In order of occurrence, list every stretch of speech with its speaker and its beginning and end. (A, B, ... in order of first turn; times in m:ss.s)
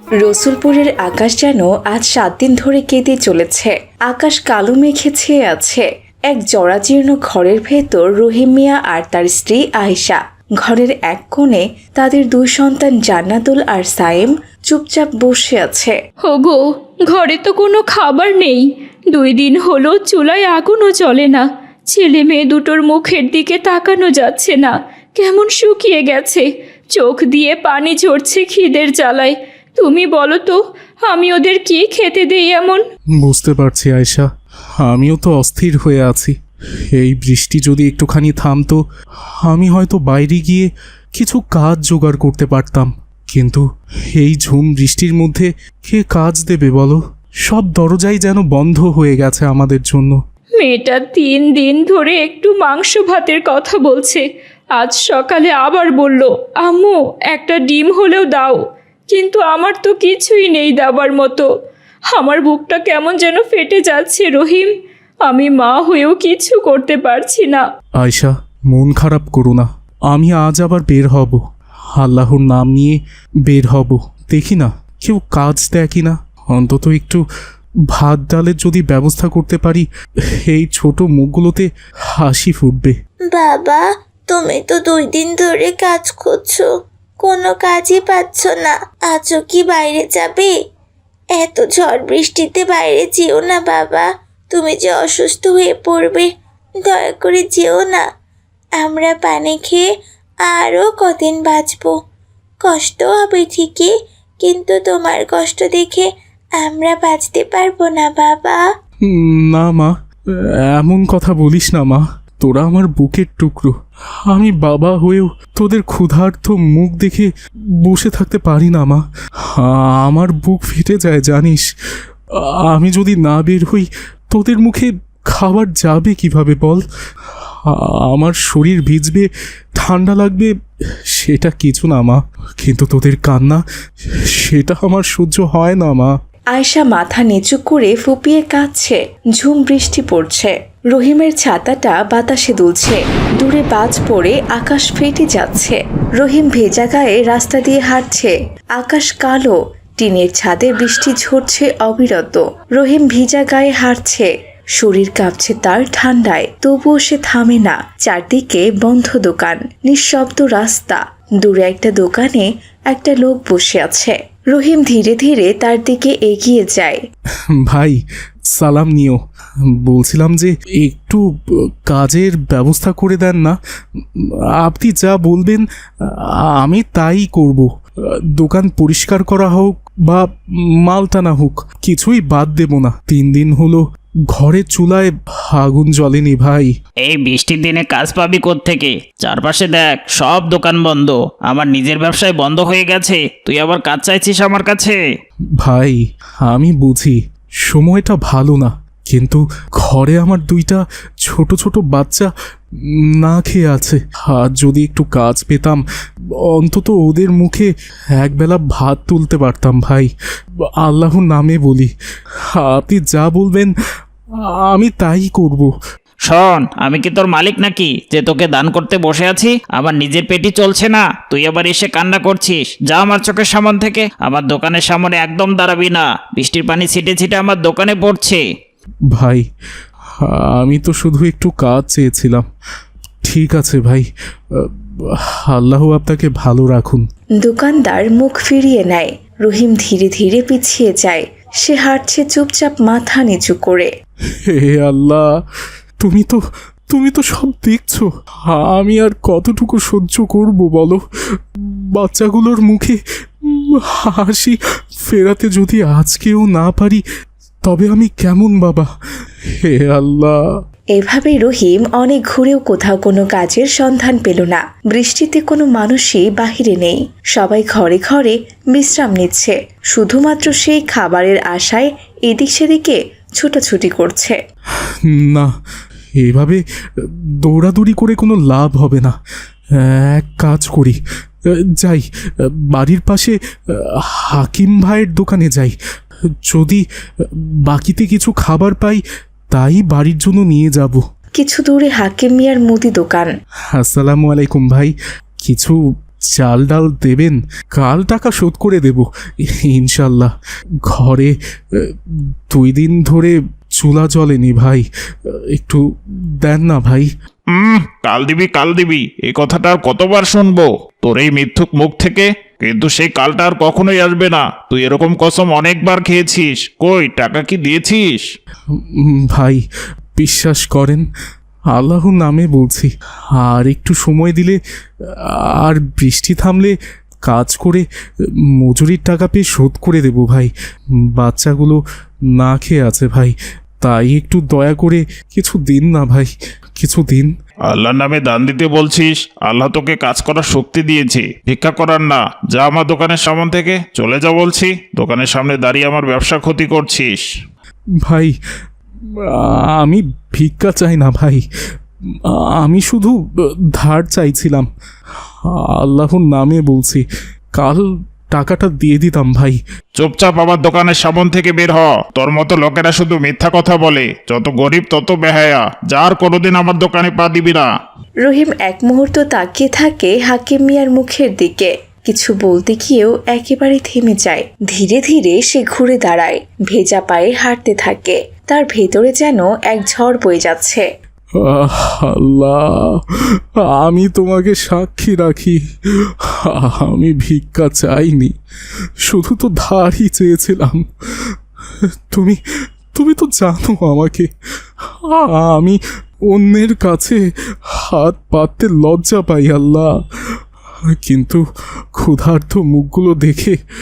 0:00.2-0:16.0 A
0:16.2-0:32.8 B
0:33.2-0:34.3 C
0:34.8-0:36.3 C
0:36.9-0:38.8 C
0:39.4-0:50.2 C
0:50.6-0:54.2 B
0:54.8-1:01.5 B
1:02.1-1:04.7 B
1:05.2-1:07.6 B
1:08.0-1:11.4 C
1:12.0-1:17.2 C
1:17.9-1:19.9 C
1:20.5-1:23.0 C
1:23.3-1:26.7 D
1:27.2-1:30.5 D
1:31.4-1:36.3 D
1:36.8-1:38.0 D
1:38.8-1:39.8 D
1:40.5-1:42.0 D
1:42.6-1:46.1 D
1:46.6-1:48.6 D
1:49.1-1:49.9 C
1:50.7-1:53.8 C
1:54.3-1:57.3 C
1:57.8-2:01.7 C
2:02.4-2:06.8 C
2:07.7-2:10.5 C
2:11.1-2:13.6 C
2:14.3-2:16.1 C
2:16.5-2:47.0 A
2:47.6-2:49.2 C
2:49.8-2:57.7 C
2:58.4-3:00.2 C
3:00.8-3:06.7 C
3:07.0-3:15.0 E
3:15.6-3:22.3 C
3:23.0-3:25.8 C
3:26.5-3:30.1 C
3:30.8-3:31.9 C
3:32.5-3:33.7 C
3:34.6-3:35.7 C
3:36.3-3:48.4 E
3:49.1-3:49.4 C
3:50.2-3:52.5 C
3:53.2-3:57.0 C
3:57.4-4:03.9 A
4:04.4-4:05.2 C
4:06.0-4:06.4 C
4:06.9-4:17.0 C
4:17.6-4:18.9 C
4:19.6-4:20.4 C
4:21.0-4:34.4 A
4:35.0-4:35.5 C
4:36.2-4:39.2 C
4:39.8-4:45.8 C
4:46.5-4:49.0 C
4:49.5-4:51.0 C
4:51.4-4:53.3 A
4:53.7-4:55.8 C
4:56.4-5:00.3 C
5:00.9-5:05.8 C
5:06.4-5:07.1 C
5:07.5-5:18.2 F
5:18.8-5:19.6 C
5:20.2-5:21.1 C
5:21.7-5:24.6 C
5:25.1-5:27.9 C
5:28.4-5:30.5 C
5:31.1-5:31.8 C
5:32.4-5:37.3 C
5:37.7-5:47.2 F
5:48.1-5:48.4 C
5:49.2-5:51.4 C
5:52.2-5:53.2 C
5:53.7-5:54.7 C
5:55.5-5:59.6 C
6:00.0-6:07.7 F
6:08.2-6:20.8 A
6:21.4-6:28.3 C
6:29.0-6:31.4 C
6:32.1-6:32.4 C
6:32.9-6:34.3 C
6:35.1-6:35.8 C
6:36.3-6:37.2 C
6:37.8-6:39.9 C
6:40.9-6:41.4 C
6:42.0-6:43.6 C